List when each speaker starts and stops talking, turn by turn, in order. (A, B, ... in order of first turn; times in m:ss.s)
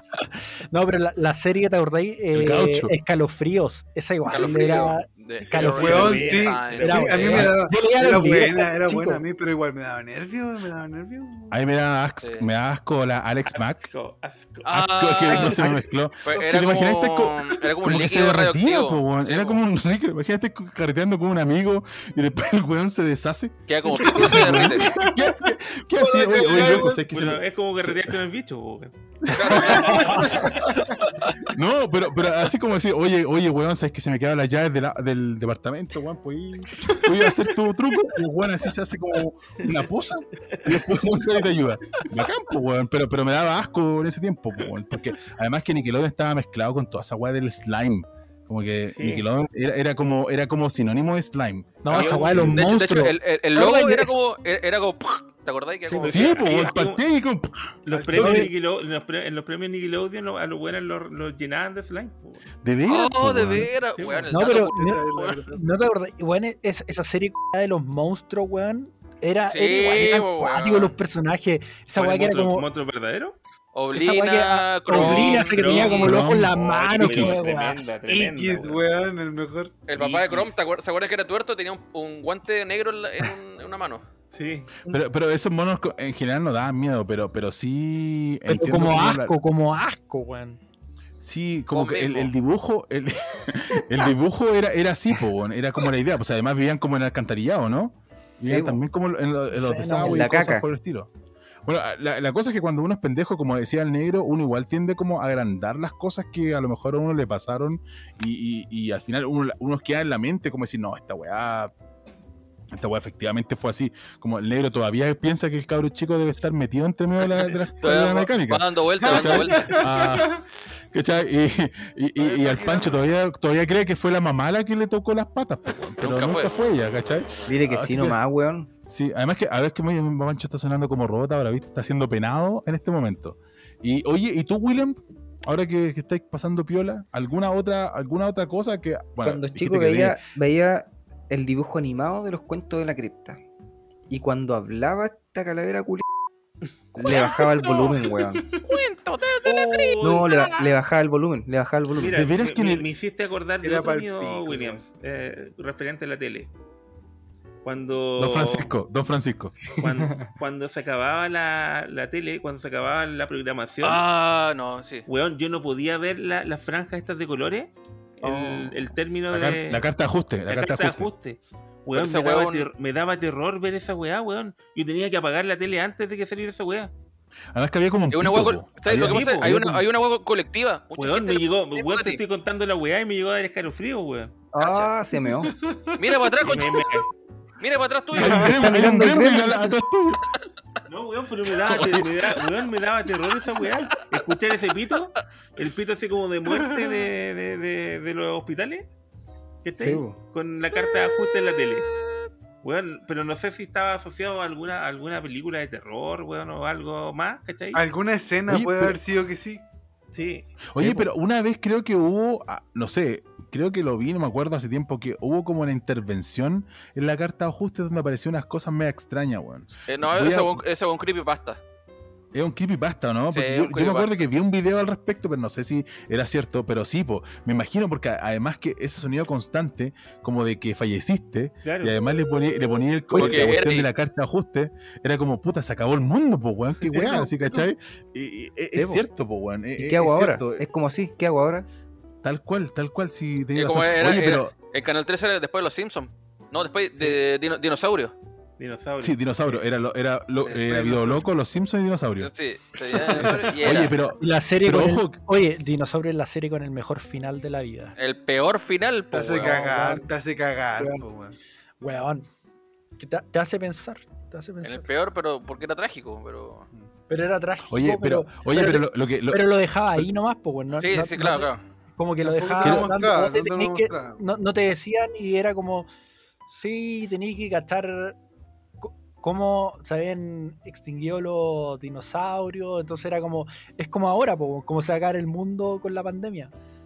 0:00.2-0:09.2 A
0:02.3-0:03.0 B
0:04.3-0:07.6 C
0:04.3-0:04.9 D
0:05.6-0:07.3 E
0:05.6-0:11.6 D
0:11.5-0:13.9 B
0:12.2-0:12.5 C
0:13.5-0:14.7 E
0:14.6-0:19.6 C
0:14.7-0:28.2 B
0:15.3-0:16.5 D
0:23.7-0:25.0 C
0:23.9-0:27.0 D
0:26.4-0:28.9 E
0:29.3-0:30.5 C
0:29.3-0:30.3 B
0:29.5-0:30.9 D
0:29.5-0:30.9 E
0:31.5-0:52.8 B
0:48.9-0:49.2 E
0:51.8-0:54.2 A
0:51.9-0:52.5 E
0:52.0-0:56.7 C
0:56.0-0:57.0 E
0:56.0-0:57.7 B
0:57.9-1:02.5 E
0:57.9-0:58.5 D
0:58.2-0:58.5 A
1:02.6-1:03.7 B
1:02.9-1:05.4 C
1:04.0-1:04.4 E
1:04.3-1:12.7 A
1:04.5-1:05.6 D
1:09.5-1:11.0 C
1:12.0-1:13.4 E
1:13.7-1:16.1 C
1:13.9-1:17.8 A
1:14.9-1:18.9 E
1:16.0-1:17.4 B
1:18.1-1:19.8 D
1:19.9-1:24.0 C
1:19.9-1:20.6 E
1:24.3-1:24.7 E
1:24.9-1:29.4 B
1:28.5-1:30.6 A
1:31.2-1:41.1 B
1:31.7-1:32.3 C
1:38.4-1:38.8 F
1:39.5-1:40.3 A
1:40.0-1:40.7 F
1:41.6-1:51.7 B
1:52.7-2:08.2 B
1:57.8-1:59.9 C
1:59.0-2:00.4 D
2:02.2-2:03.0 D
2:06.0-2:06.7 C
2:07.5-2:08.7 F
2:08.9-2:20.2 B
2:19.2-2:23.4 F
2:24.1-2:26.0 F
2:27.0-2:28.4 F
2:27.0-2:27.9 C
2:27.6-2:28.6 D
2:28.6-2:30.7 C
2:29.4-2:30.5 E
2:30.0-2:32.3 F
2:32.0-2:36.5 E
2:32.1-2:32.9 B
2:33.6-2:34.8 D
2:37.6-2:38.7 E
2:38.2-2:39.7 B
2:39.8-2:44.0 E
2:43.8-2:45.1 C
2:45.1-2:49.9 E
2:49.3-2:51.1 B
2:50.5-2:56.9 E
2:51.9-2:52.7 C
2:57.5-2:59.8 B
2:58.1-3:02.2 C
2:58.9-2:59.6 E
3:01.0-3:04.3 E
3:04.5-3:05.5 F
3:04.6-3:05.0 C
3:05.4-3:06.0 D
3:06.0-3:07.0 C
3:06.4-3:07.1 E
3:07.6-3:08.8 C
3:08.1-3:10.2 B
3:08.2-3:08.6 D
3:08.6-3:09.7 A
3:10.9-3:18.9 E
3:11.7-3:12.1 B
3:19.6-3:21.9 E
3:19.8-3:20.2 F
3:22.6-3:27.8 E
3:27.7-3:29.6 D
3:28.5-3:29.0 B
3:30.1-3:30.7 E
3:30.7-3:40.6 B
3:39.9-3:41.6 C
3:42.3-4:00.6 B
3:43.3-3:44.2 C
3:51.6-3:52.0 E
3:53.1-3:53.6 F
3:53.1-3:53.9 C
3:58.7-3:59.0 F
3:59.8-4:01.7 F
4:02.2-4:04.5 B
4:03.5-4:08.1 C
4:08.6-4:09.6 E
4:09.0-4:12.3 B
4:10.5-4:11.3 D
4:12.2-4:14.0 C
4:13.0-4:13.6 D
4:13.2-4:15.2 B
4:14.2-4:18.0 A
4:18.0-4:19.5 C
4:19.1-4:21.4 D
4:19.4-4:20.1 A
4:20.8-4:21.0 A
4:21.8-4:22.3 A
4:23.0-4:24.8 A
4:24.6-4:26.7 C
4:27.1-4:35.9 A
4:27.7-4:30.1 B
4:30.8-4:31.6 C
4:32.2-4:34.2 D
4:32.6-4:32.9 B
4:36.5-4:38.2 A
4:38.8-4:46.5 A